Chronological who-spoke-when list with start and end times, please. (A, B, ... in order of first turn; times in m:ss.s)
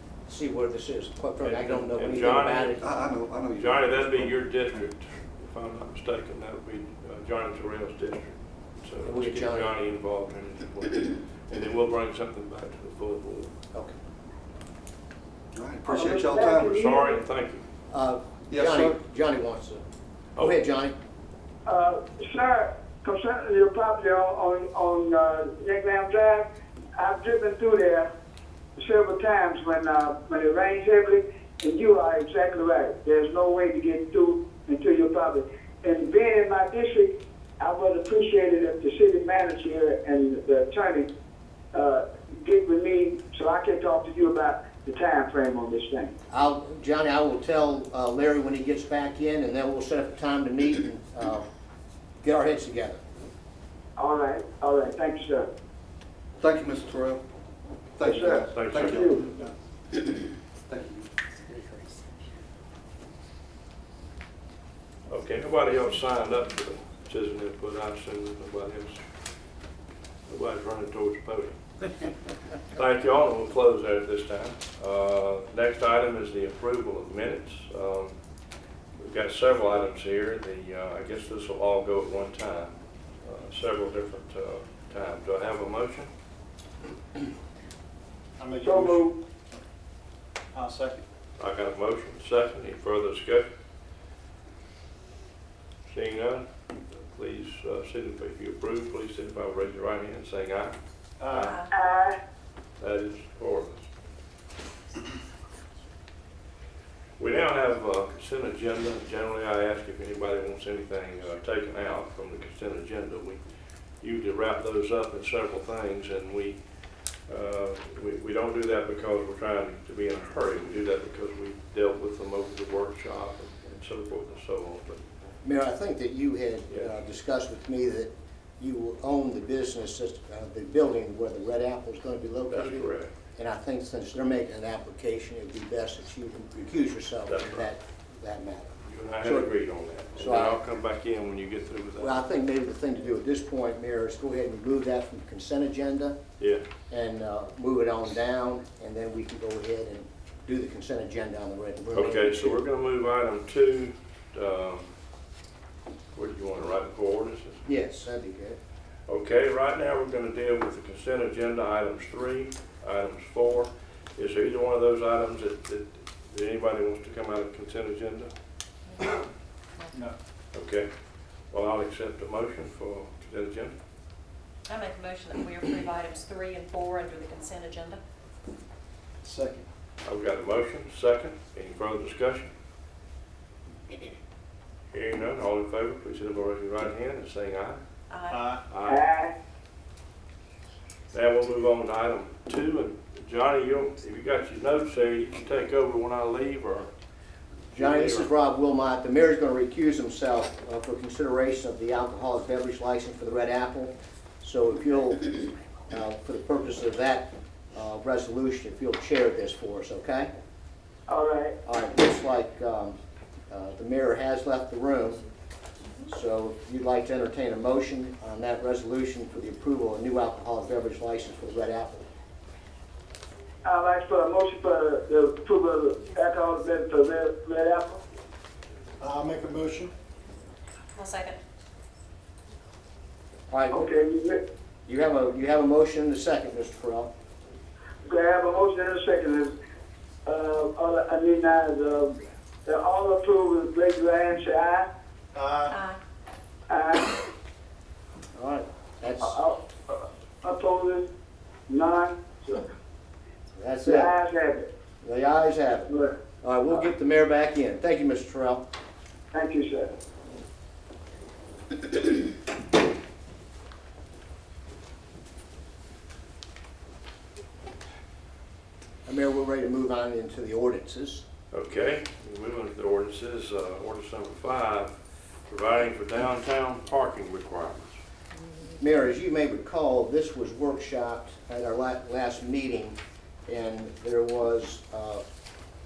0:00.3-0:02.8 A
0:01.4-0:02.8 B
0:02.8-0:04.7 C
0:03.5-0:13.5 B
0:09.0-0:09.8 A
0:15.5-0:16.9 C
0:15.9-0:17.2 D
0:16.7-0:17.6 B
0:17.9-0:19.8 A
0:18.5-0:18.9 C
0:20.4-0:20.9 A
0:21.6-0:28.1 D
0:28.8-0:41.1 D
0:41.7-0:46.1 D
0:46.3-0:51.4 A
0:52.2-0:53.0 A
0:54.0-0:55.5 D
0:56.4-0:57.2 C
0:58.0-1:01.1 C
0:58.0-0:59.2 D
0:58.5-0:59.2 B
1:05.1-1:09.0 B
1:10.3-1:11.6 B
1:12.7-1:18.1 B
1:19.0-1:22.7 B
1:23.2-1:26.1 B
1:28.4-1:29.6 E
1:28.6-1:29.2 D
1:30.5-1:31.0 E
1:31.4-1:33.5 B
1:35.9-1:36.4 B
1:37.0-1:40.8 B
1:41.3-1:41.6 B
1:41.4-1:41.7 F
1:41.7-1:42.2 D
1:42.8-1:43.8 B
1:47.2-1:53.4 B
1:54.0-1:56.6 B
1:57.3-2:05.0 B
2:05.4-2:19.5 A
2:12.5-2:13.1 B
2:17.2-2:17.7 B
2:18.8-2:22.2 B
2:20.2-2:20.6 A
2:22.0-2:26.2 A
2:26.4-2:26.6 B
2:26.9-2:32.6 A
2:31.9-2:34.9 B
2:36.1-2:37.6 B
2:37.6-2:38.6 A
2:39.1-2:48.3 B
2:48.9-2:49.2 F
2:50.5-2:50.9 B
2:51.5-2:53.8 B
2:54.7-2:58.0 F
2:59.2-2:59.7 E
3:00.0-3:02.5 B
3:04.9-3:07.8 B
3:08.1-3:08.5 F
3:08.3-3:08.6 E
3:08.7-3:09.0 B
3:08.8-3:09.3 D
3:11.1-3:16.9 B
3:17.7-3:18.3 B
3:17.7-3:30.3 A
3:31.1-3:31.6 D
3:31.6-3:33.0 A
3:33.5-3:35.2 A
3:36.1-3:42.0 A
3:43.6-3:48.0 D
3:49.0-3:49.9 E
3:50.9-3:51.4 F
3:53.5-3:53.9 A
3:53.7-3:54.4 D
3:54.8-3:57.1 A
3:58.0-3:59.5 D
4:00.2-4:04.9 D
4:05.3-4:05.7 E
4:05.7-4:06.0 F
4:06.7-4:07.2 D
4:08.3-4:09.4 A
4:09.2-4:11.0 D
4:11.7-4:12.7 D
4:13.6-4:14.1 A
4:13.8-4:14.7 D
4:15.0-4:18.6 A
4:15.9-4:16.2 D
4:19.3-4:19.9 D
4:29.0-4:31.2 A
4:31.5-4:34.9 B
4:35.5-4:38.0 B
4:38.8-4:45.2 A